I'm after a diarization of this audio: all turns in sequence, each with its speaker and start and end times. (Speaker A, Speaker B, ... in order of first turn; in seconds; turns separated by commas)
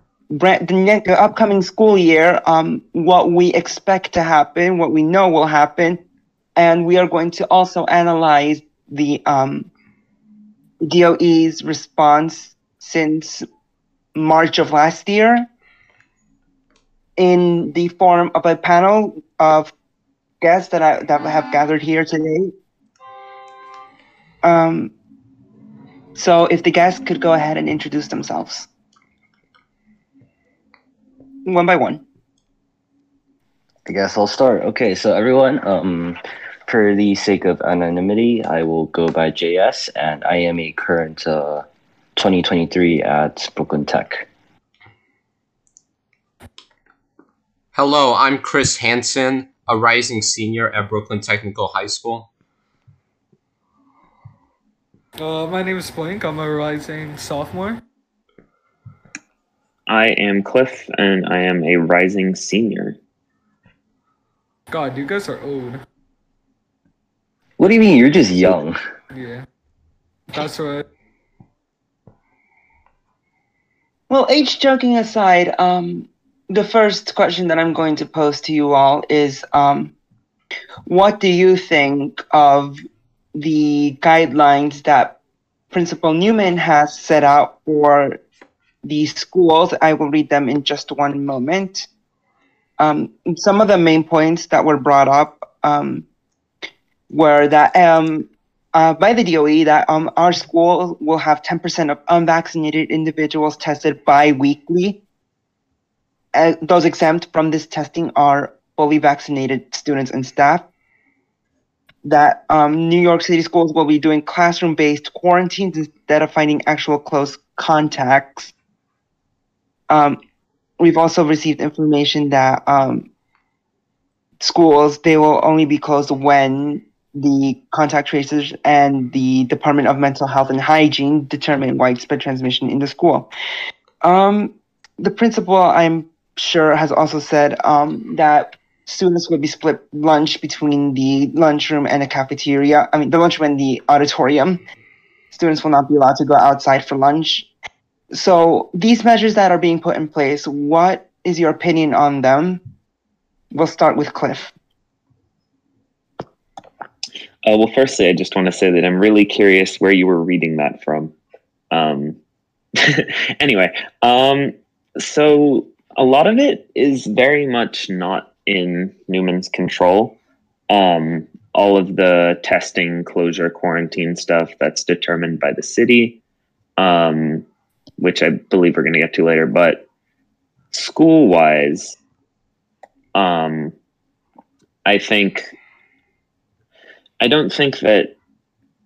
Speaker A: 0.3-6.0, Speaker A: 6.6-9.7, Speaker A: 10.8-13.4, Speaker A: 14.2-15.5, Speaker A: 17.2-19.7, Speaker A: 20.4-22.5, Speaker A: 24.4-24.9, Speaker A: 26.1-28.7, Speaker A: 31.4-32.0, Speaker B: 33.9-41.6, Speaker B: 42.2-44.3, Speaker C: 47.7-52.3, Speaker D: 55.2-57.8, Speaker E: 59.9-63.0, Speaker D: 64.7-65.8, Speaker B: 67.6-68.8, Speaker D: 69.1-69.5, Speaker D: 70.3-70.9, Speaker A: 74.1-79.9, Speaker A: 80.9-82.8, Speaker A: 83.3-85.2, Speaker A: 85.7-88.2, Speaker A: 88.8-91.9, Speaker A: 92.8-96.0, Speaker A: 97.1-105.0, Speaker A: 106.3-110.7, Speaker A: 112.0-118.5, Speaker A: 119.9-120.2, Speaker A: 120.8-123.1, Speaker A: 124.4-133.3, Speaker A: 134.0-144.6, Speaker A: 145.3-147.5, Speaker A: 148.1-152.6, Speaker A: 153.5-154.5, Speaker E: 157.4-161.1, Speaker E: 161.7-162.2, Speaker E: 162.8-170.2, Speaker E: 170.7-176.2, Speaker E: 176.8-177.4, Speaker E: 178.0-179.8, Speaker E: 180.7-182.0, Speaker E: 183.2-183.7, Speaker E: 184.9-185.5, Speaker E: 187.2-188.1